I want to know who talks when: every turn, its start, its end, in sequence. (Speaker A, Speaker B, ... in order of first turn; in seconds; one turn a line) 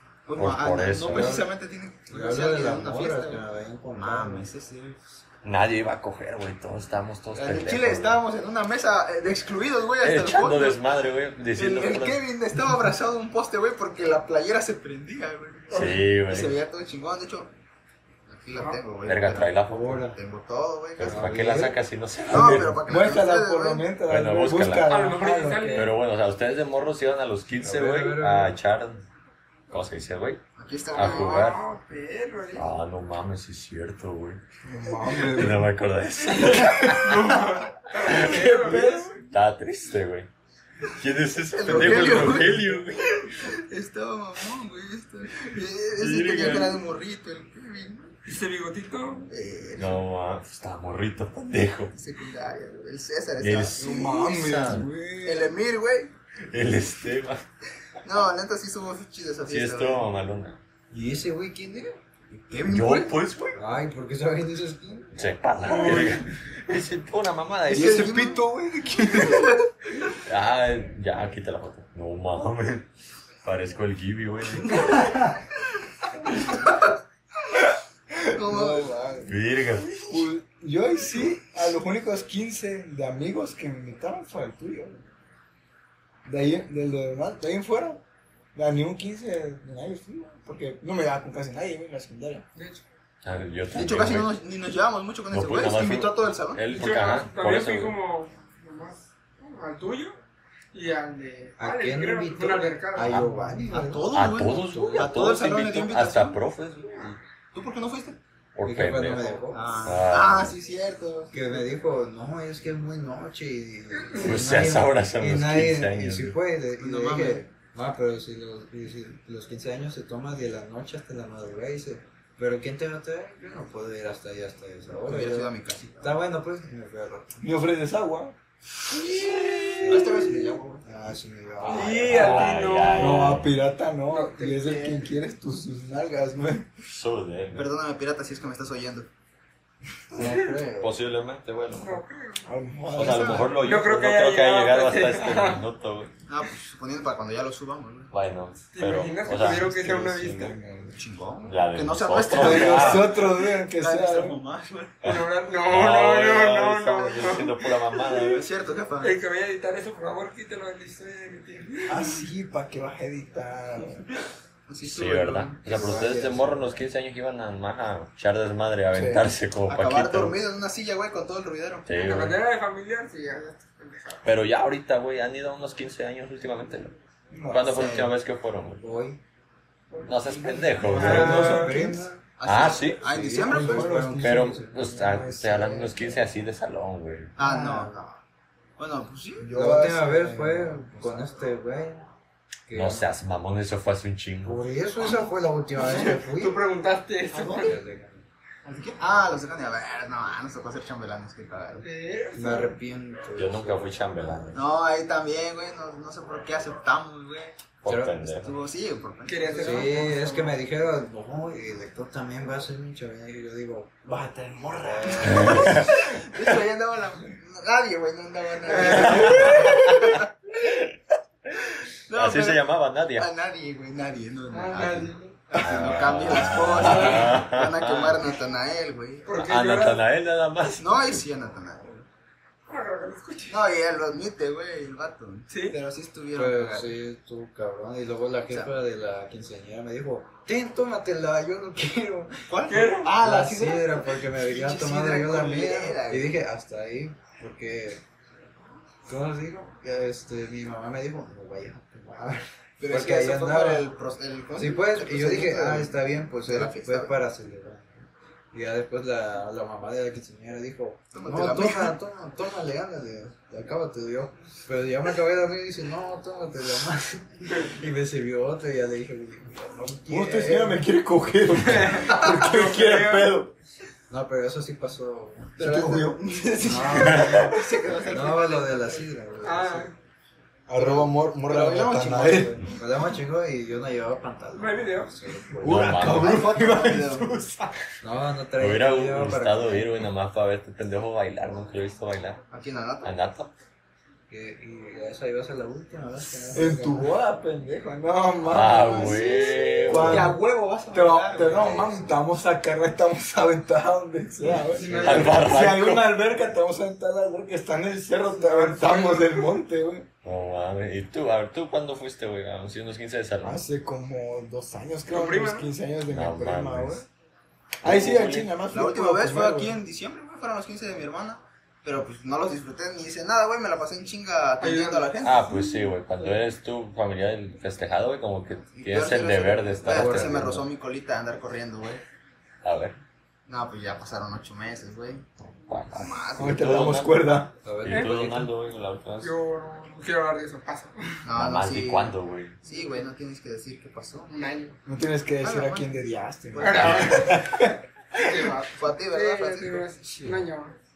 Speaker A: 0.3-3.4
Speaker B: 0.4-1.4
Speaker C: 1.1-1.5
Speaker C: 2.1-4.5
Speaker A: 4.0-5.0
Speaker B: 5.4-8.2
Speaker A: 7.3-10.8
Speaker B: 10.0-12.2
Speaker A: 11.6-17.5
Speaker B: 15.7-16.6
Speaker D: 15.7-16.0
Speaker A: 18.3-21.4
Speaker B: 19.0-20.1
Speaker C: 19.7-20.2
Speaker B: 21.0-22.8
Speaker C: 21.0-21.8
Speaker A: 22.3-23.9
Speaker E: 22.3-25.9
Speaker B: 24.1-24.9
Speaker D: 24.9-25.9
Speaker B: 25.7-29.1
Speaker C: 27.6-28.5
Speaker B: 29.7-30.4
Speaker A: 30.6-31.6
Speaker B: 30.9-31.6
Speaker D: 31.0-32.7
Speaker B: 32.5-34.4
Speaker E: 34.6-35.7
Speaker B: 35.1-37.3
Speaker D: 36.3-39.1
Speaker B: 38.0-40.3
Speaker E: 38.2-39.1
Speaker A: 38.7-39.1
Speaker B: 40.9-43.5
Speaker A: 41.6-42.8
Speaker A: 43.4-48.1
Speaker B: 46.0-46.8
Speaker D: 48.3-49.3
Speaker A: 49.3-50.0
Speaker B: 49.8-52.0
Speaker A: 51.9-54.7
Speaker B: 53.4-54.9
Speaker E: 53.8-55.5
Speaker A: 55.2-56.1
Speaker B: 56.5-57.4
Speaker A: 58.0-60.1
Speaker B: 59.5-60.6
Speaker C: 60.9-62.0
Speaker A: 62.3-63.1
Speaker B: 62.6-63.6
Speaker C: 63.6-65.1
Speaker B: 65.1-68.2
Speaker C: 65.7-66.0
Speaker E: 67.7-69.7
Speaker A: 67.7-68.5
Speaker A: 69.1-69.6
Speaker B: 70.2-72.9
Speaker B: 73.4-75.3
Speaker E: 78.1-79.0
Speaker A: 78.3-79.3
Speaker B: 79.3-80.1
Speaker E: 80.0-85.0
Speaker E: 86.2-88.0
Speaker E: 88.5-92.5
Speaker D: 92.6-92.8
Speaker B: 93.2-94.4
Speaker A: 93.7-96.6
Speaker B: 95.3-98.0
Speaker D: 96.7-100.2
Speaker D: 100.7-103.2
Speaker C: 101.6-104.1
Speaker E: 103.1-103.9
Speaker A: 103.7-106.4
Speaker B: 104.1-107.2
Speaker C: 104.7-105.1
Speaker A: 107.5-108.2
Speaker B: 108.5-110.5
Speaker C: 108.7-109.8
Speaker A: 109.5-111.7
Speaker C: 111.3-127.4
Speaker D: 114.0-114.4
Speaker B: 114.2-116.4
Speaker A: 116.8-117.5
Speaker A: 125.0-126.2
Speaker E: 127.4-128.4
Speaker C: 129.8-130.2
Speaker A: 129.8-130.8
Speaker C: 130.8-132.6
Speaker B: 131.6-133.5
Speaker D: 131.7-133.4
Speaker E: 133.0-136.7
Speaker D: 134.1-135.0
Speaker B: 136.8-137.7
Speaker A: 137.5-139.1
Speaker C: 140.1-140.9
Speaker D: 140.2-140.5
Speaker B: 140.8-142.0
Speaker D: 141.8-142.5
Speaker E: 142.5-143.6
Speaker B: 142.9-146.1
Speaker A: 143.0-143.5
Speaker D: 143.6-145.7
Speaker A: 146.3-148.1
Speaker B: 148.1-150.1
Speaker D: 148.7-150.6
Speaker E: 149.3-151.0
Speaker A: 151.0-155.0
Speaker B: 151.4-153.2
Speaker E: 152.4-154.4
Speaker D: 155.0-158.4
Speaker B: 155.0-158.5
Speaker A: 158.3-159.2
Speaker D: 159.0-162.2
Speaker E: 161.9-164.1
Speaker A: 164.7-165.9
Speaker B: 164.8-170.4
Speaker E: 165.7-166.4
Speaker C: 165.7-166.7
Speaker E: 168.9-169.3
Speaker A: 169.7-171.9
Speaker B: 171.9-172.4
Speaker D: 171.9-174.3
Speaker B: 174.2-177.0
Speaker E: 177.3-177.8
Speaker B: 177.5-178.8
Speaker A: 177.6-178.1
Speaker C: 178.8-179.2
Speaker B: 180.1-181.8
Speaker E: 180.8-182.1
Speaker C: 180.8-182.2
Speaker D: 180.9-181.8
Speaker A: 182.4-184.1
Speaker B: 182.4-183.0
Speaker C: 183.0-184.7
Speaker E: 183.4-186.1
Speaker B: 184.2-187.3
Speaker A: 187.4-188.0
Speaker C: 187.4-188.2
Speaker E: 187.5-187.7
Speaker A: 188.8-189.5
Speaker E: 189.4-191.3
Speaker C: 189.5-192.1
Speaker C: 192.7-193.1
Speaker B: 192.7-194.6
Speaker C: 194.4-196.6
Speaker D: 195.8-197.8
Speaker E: 197.4-197.6
Speaker C: 197.4-198.2
Speaker A: 198.7-201.9
Speaker D: 201.8-202.8
Speaker C: 202.3-204.6
Speaker B: 203.3-204.6
Speaker A: 204.5-207.6
Speaker B: 207.8-208.5
Speaker C: 207.9-208.4
Speaker A: 208.4-210.0
Speaker D: 209.3-210.6
Speaker C: 209.6-216.1
Speaker A: 215.2-220.3
Speaker B: 215.2-215.9
Speaker D: 218.7-219.8
Speaker B: 218.8-220.9
Speaker A: 222.1-222.6
Speaker B: 222.1-223.3
Speaker A: 223.2-229.3
Speaker D: 224.5-225.4
Speaker B: 225.6-228.2
Speaker D: 226.8-227.3
Speaker D: 229.3-230.0
Speaker B: 229.3-231.2
Speaker A: 230.8-232.1
Speaker D: 232.7-233.6
Speaker A: 233.5-237.0
Speaker D: 235.5-235.8
Speaker C: 236.3-242.6
Speaker A: 242.5-246.3
Speaker D: 242.7-243.1
Speaker C: 243.1-248.0
Speaker C: 249.1-253.9
Speaker A: 252.8-257.2
Speaker C: 254.6-270.9
Speaker A: 261.1-262.0
Speaker E: 270.1-273.5
Speaker D: 271.6-273.4
Speaker C: 274.1-275.6
Speaker A: 275.6-279.1
Speaker E: 275.6-276.2
Speaker C: 276.6-279.9
Speaker D: 279.4-279.9
Speaker E: 280.7-282.7
Speaker A: 280.8-282.7
Speaker C: 282.7-286.2
Speaker D: 284.6-285.1
Speaker E: 285.6-287.7
Speaker B: 285.6-286.4
Speaker A: 285.9-287.3
Speaker C: 288.0-290.0
Speaker B: 288.6-292.4
Speaker A: 292.5-293.1
Speaker B: 293.0-293.5
Speaker C: 294.3-297.1
Speaker E: 296.5-300.4
Speaker B: 298.5-300.4
Speaker A: 299.0-302.1
Speaker E: 300.9-310.1
Speaker C: 301.4-302.0
Speaker D: 304.6-305.4
Speaker C: 304.9-305.3
Speaker B: 304.9-306.1
Speaker D: 308.3-309.6
Speaker B: 310.2-313.6
Speaker E: 313.4-317.1
Speaker D: 315.1-315.7
Speaker B: 316.1-317.0
Speaker B: 317.8-318.5
Speaker E: 317.8-319.8
Speaker A: 318.7-325.6
Speaker D: 324.6-325.7
Speaker B: 325.2-330.7
Speaker A: 328.8-332.0
Speaker C: 329.9-330.5
Speaker B: 332.6-333.0
Speaker A: 333.5-335.3
Speaker B: 335.4-337.2
Speaker A: 335.9-336.9
Speaker E: 336.4-337.5
Speaker C: 337.6-338.5
Speaker B: 337.8-339.3
Speaker D: 339.2-341.2
Speaker A: 341.2-344.3
Speaker B: 341.4-342.6
Speaker D: 344.3-344.8
Speaker E: 344.9-348.6
Speaker A: 345.4-346.0
Speaker A: 346.5-347.2
Speaker D: 346.6-347.4
Speaker B: 346.8-347.7
Speaker D: 348.2-350.8
Speaker A: 348.8-349.9
Speaker E: 350.0-350.4